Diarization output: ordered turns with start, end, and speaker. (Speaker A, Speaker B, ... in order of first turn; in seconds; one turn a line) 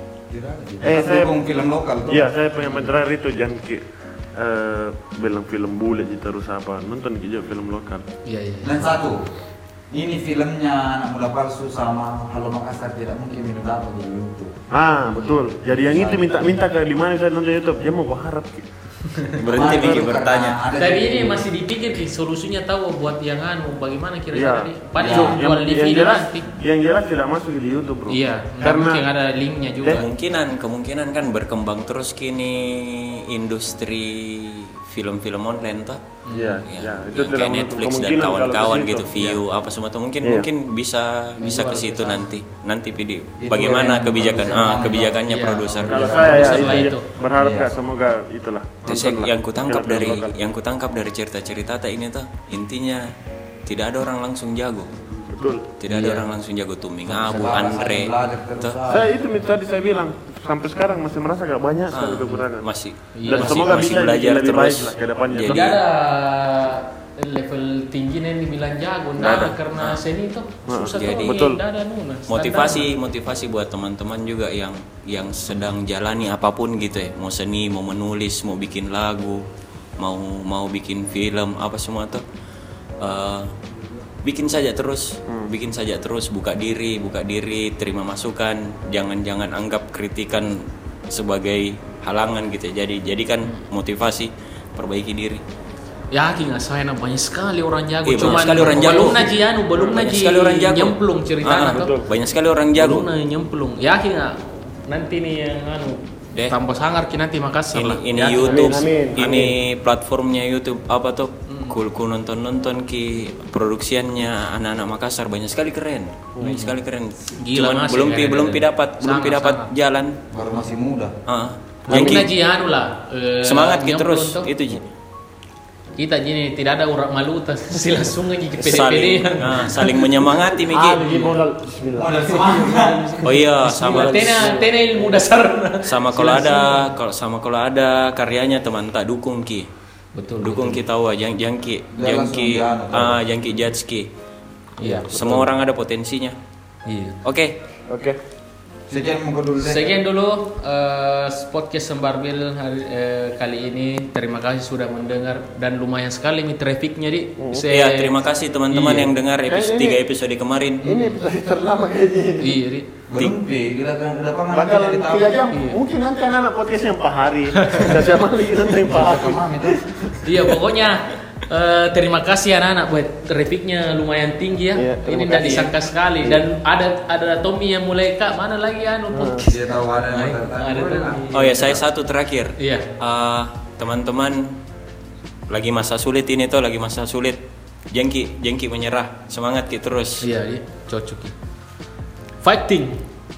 Speaker A: 0.3-2.3
Speaker B: 0.8-1.4
Speaker B: 2.1-8.1
Speaker C: 2.6-2.9
Speaker C: 8.2-9.1
Speaker A: 8.6-9.2
Speaker A: 9.9-14.6
Speaker B: 14.7-18.7
Speaker C: 15.1-15.4
Speaker A: 15.9-16.4
Speaker B: 19.2-20.1
Speaker D: 19.4-20.6
Speaker A: 19.5-21.5
Speaker C: 20.8-26.5
Speaker B: 24.3-29.0
Speaker A: 25.0-25.4
Speaker C: 28.1-30.1
Speaker D: 29.9-46.9
Speaker C: 36.2-36.6
Speaker B: 36.3-39.4
Speaker B: 40.2-40.5
Speaker C: 41.4-42.3
Speaker A: 43.4-45.2
Speaker C: 45.3-47.1
Speaker A: 45.8-46.8
Speaker B: 45.9-50.3
Speaker A: 47.3-47.7
Speaker D: 48.9-53.1
Speaker D: 53.7-54.9
Speaker B: 55.1-55.6
Speaker D: 55.8-58.8
Speaker C: 55.9-56.3
Speaker A: 57.1-59.1
Speaker B: 58.9-62.7
Speaker D: 61.9-65.8
Speaker C: 63.1-64.0
Speaker B: 63.3-65.7
Speaker C: 65.5-72.9
Speaker B: 69.2-69.5
Speaker D: 69.3-70.0
Speaker B: 70.7-71.6
Speaker D: 70.9-71.5
Speaker D: 72.3-79.4
Speaker D: 80.0-82.2
Speaker D: 83.0-83.5
Speaker D: 84.2-95.4
Speaker C: 96.1-101.9
Speaker D: 98.1-103.1
Speaker B: 98.7-98.9
Speaker B: 101.6-102.1
Speaker C: 102.8-109.4
Speaker D: 107.7-120.2
Speaker B: 108.3-109.5
Speaker C: 111.5-111.8
Speaker C: 116.4-116.7
Speaker C: 117.4-119.7
Speaker A: 120.3-121.1
Speaker D: 121.3-122.3
Speaker C: 121.9-124.5
Speaker B: 121.9-122.2
Speaker D: 123.4-124.9
Speaker C: 126.0-129.9
Speaker D: 128.6-131.0
Speaker B: 130.7-135.2
Speaker C: 131.0-131.4
Speaker A: 132.0-133.2
Speaker C: 132.3-136.9
Speaker D: 133.2-134.6
Speaker D: 135.8-139.7
Speaker C: 140.2-140.8
Speaker D: 140.4-144.1
Speaker A: 141.9-143.2
Speaker C: 144.8-145.5
Speaker D: 144.9-146.4
Speaker C: 146.9-147.2
Speaker D: 147.2-147.6
Speaker B: 147.9-148.2
Speaker A: 148.9-149.9
Speaker C: 149.6-159.1
Speaker B: 157.4-157.7
Speaker D: 157.7-160.9
Speaker B: 159.5-160.0
Speaker C: 160.8-161.2
Speaker B: 160.8-162.6
Speaker C: 162.4-162.9
Speaker A: 163.1-165.5
Speaker B: 164.5-170.4
Speaker C: 165.5-165.8
Speaker C: 167.6-168.0
Speaker A: 168.8-169.8
Speaker C: 170.2-181.8
Speaker B: 174.7-176.4
Speaker B: 179.1-179.4
Speaker A: 179.4-181.5
Speaker D: 181.3-184.6
Speaker C: 182.6-182.9
Speaker D: 185.5-187.4
Speaker D: 187.9-190.3
Speaker C: 190.2-191.3
Speaker C: 192.4-193.0